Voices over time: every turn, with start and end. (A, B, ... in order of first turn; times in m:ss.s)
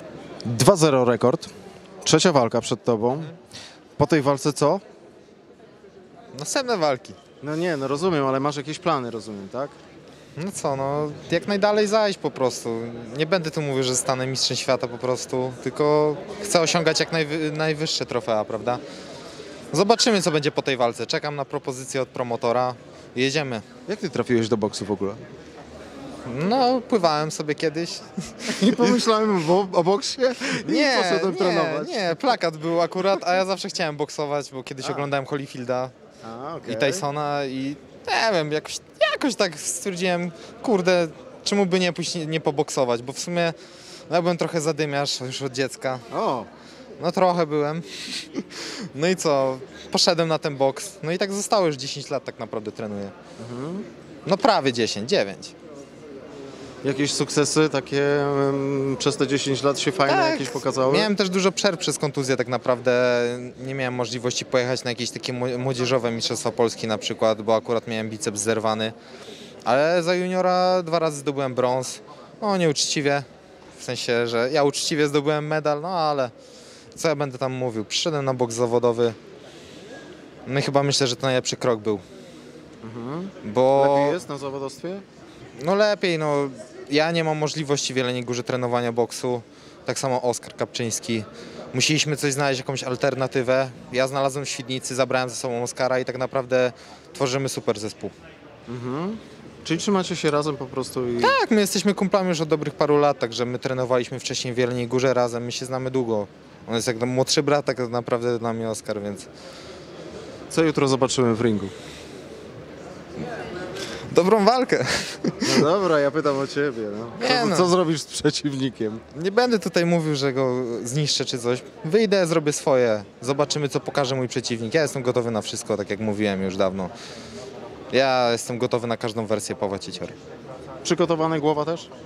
0:00.4-0:01.5 A
0:02.0-0:03.3 A
0:04.0-0:04.8 A
0:06.3-0:07.2 B
0:07.4-0:09.8 A
0:10.4-0:18.8 B
0:19.7-0:23.6 B
0:23.9-0:25.2 A
0:26.2-0:29.1 B
0:28.5-0:32.3 A
0:30.5-0:35.9 B
0:36.2-0:37.0 A
0:36.6-0:43.6 B
0:44.1-0:46.0 B
0:46.1-0:46.5 A
0:47.0-0:53.1 B
0:53.4-0:53.8 A
0:54.2-0:55.5 B
0:56.8-1:01.1 A
1:00.1-1:08.9 B
1:09.6-1:16.3 B
1:16.9-1:19.2 B
1:20.4-1:22.0 B
1:22.8-1:25.0 A
1:23.4-1:24.2 B
1:25.6-1:38.1 B
1:38.7-1:41.4 A
1:41.2-1:49.3 B
1:50.5-1:51.7 A
1:54.1-1:55.7 B
1:55.4-1:59.0 A
1:57.2-1:57.7 B
1:59.1-2:06.9 B
2:07.9-2:10.1 B
2:10.8-2:11.9 A